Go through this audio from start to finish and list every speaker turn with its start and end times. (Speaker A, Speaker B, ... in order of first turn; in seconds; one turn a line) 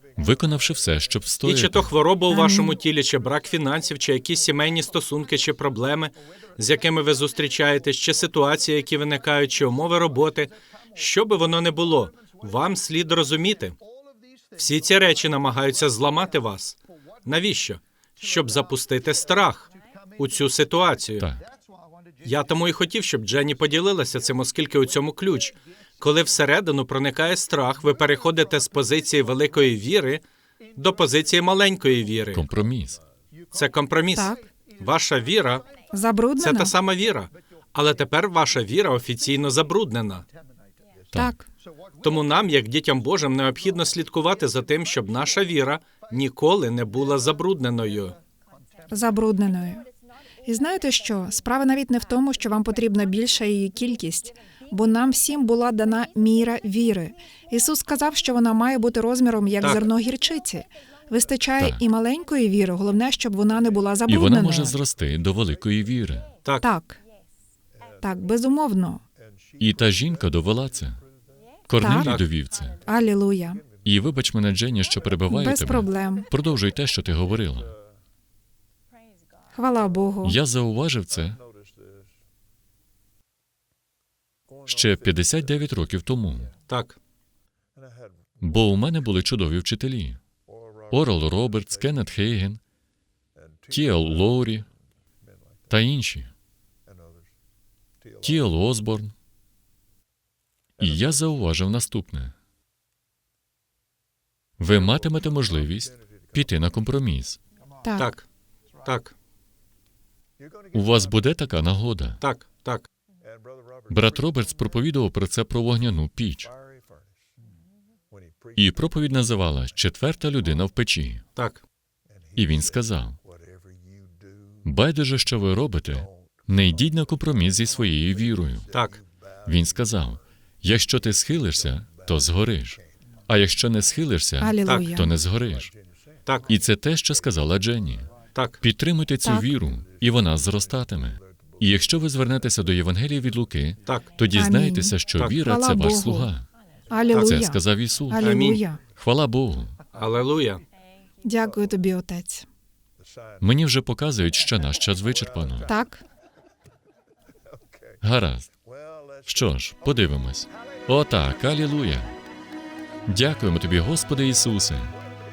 Speaker A: 0.1-1.9
Speaker B: 1.4-13.8
Speaker C: 2.3-2.8
Speaker B: 14.6-21.3
Speaker A: 21.2-21.4
Speaker B: 22.2-30.2
Speaker B: 30.8-32.4
Speaker A: 32.3-33.0
Speaker B: 33.5-35.6
Speaker C: 34.1-34.5
Speaker C: 35.9-36.7
Speaker B: 36.4-40.2
Speaker C: 41.1-41.5
Speaker B: 42.0-48.1
Speaker C: 48.9-49.8
Speaker C: 50.5-64.8
Speaker B: 59.6-59.9
Speaker A: 64.1-66.3
Speaker C: 66.6-67.0
Speaker C: 68.0-69.0
Speaker A: 69.6-71.0
Speaker A: 71.7-72.8
Speaker C: 71.8-72.1
Speaker B: 71.9-72.3
Speaker C: 72.8-73.6
Speaker A: 73.8-77.7
Speaker C: 75.3-76.3
Speaker C: 79.5-80.4
Speaker A: 80.2-81.4
Speaker A: 84.7-86.5
Speaker B: 86.7-87.0
Speaker A: 88.4-90.2
Speaker A: 90.9-92.6
Speaker A: 93.7-94.7
Speaker A: 95.7-96.3
Speaker A: 98.2-99.1
Speaker A: 100.8-102.3
Speaker A: 104.6-107.4
Speaker C: 107.8-108.1
Speaker B: 108.0-108.2
Speaker B: 108.8-109.1
Speaker A: 110.7-112.2
Speaker B: 112.2-112.9
Speaker A: 113.9-116.5
Speaker A: 118.5-121.2
Speaker B: 121.3-121.6
Speaker A: 122.3-123.2
Speaker A: 124.6-128.7
Speaker B: 128.7-129.0
Speaker A: 129.4-135.7
Speaker C: 134.4-135.1
Speaker B: 134.7-135.0
Speaker A: 136.5-146.4
Speaker B: 138.3-138.6
Speaker C: 139.2-139.5
Speaker B: 143.9-144.1
Speaker C: 144.3-146.3
Speaker C: 146.9-148.8
Speaker A: 147.1-148.4
Speaker B: 148.2-148.6
Speaker A: 148.9-149.8
Speaker B: 149.9-150.6
Speaker C: 151.2-152.5
Speaker A: 153.4-155.7
Speaker C: 155.6-156.0
Speaker A: 158.0-158.5
Speaker A: 159.2-162.1
Speaker A: 163.1-164.9